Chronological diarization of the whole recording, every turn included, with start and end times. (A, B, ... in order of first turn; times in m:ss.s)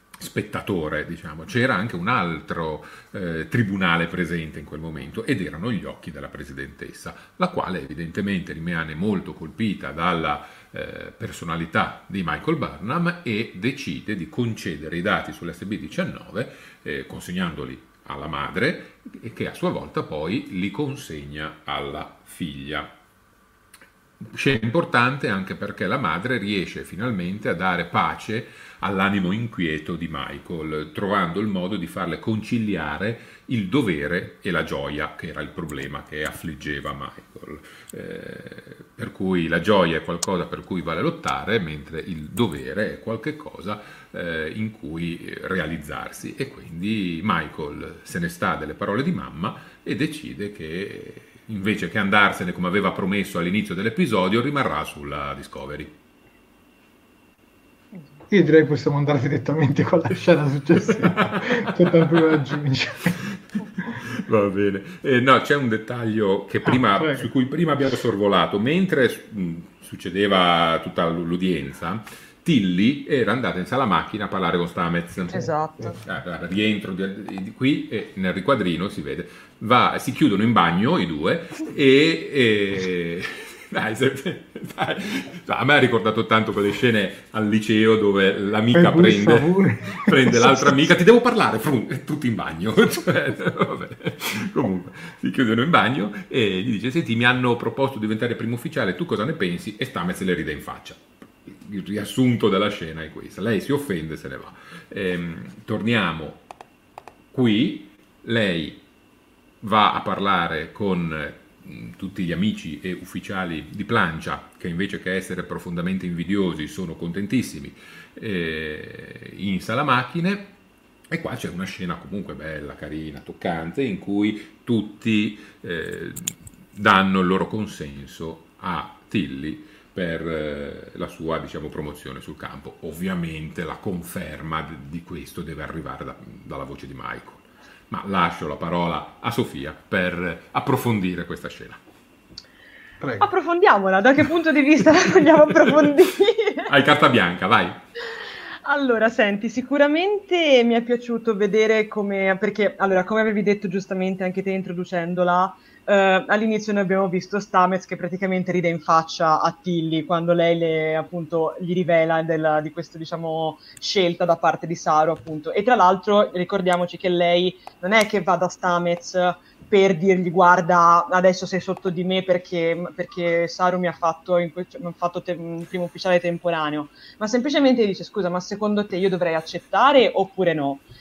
0:00.2-0:22.9 A
0:24.2-0:56.0 A
0:58.3-1:03.2 B
1:00.9-1:02.4 A
1:03.2-1:15.4 A
1:06.6-1:07.3 B
1:15.3-1:16.0 C
1:16.0-1:46.4 A
1:28.7-1:30.9 B
1:47.3-1:48.8 A
1:49.6-2:00.5 A
2:01.1-2:21.8 A
2:23.0-2:23.3 B
2:23.2-2:26.7 C
2:26.7-2:27.8 A
2:28.6-3:00.8 C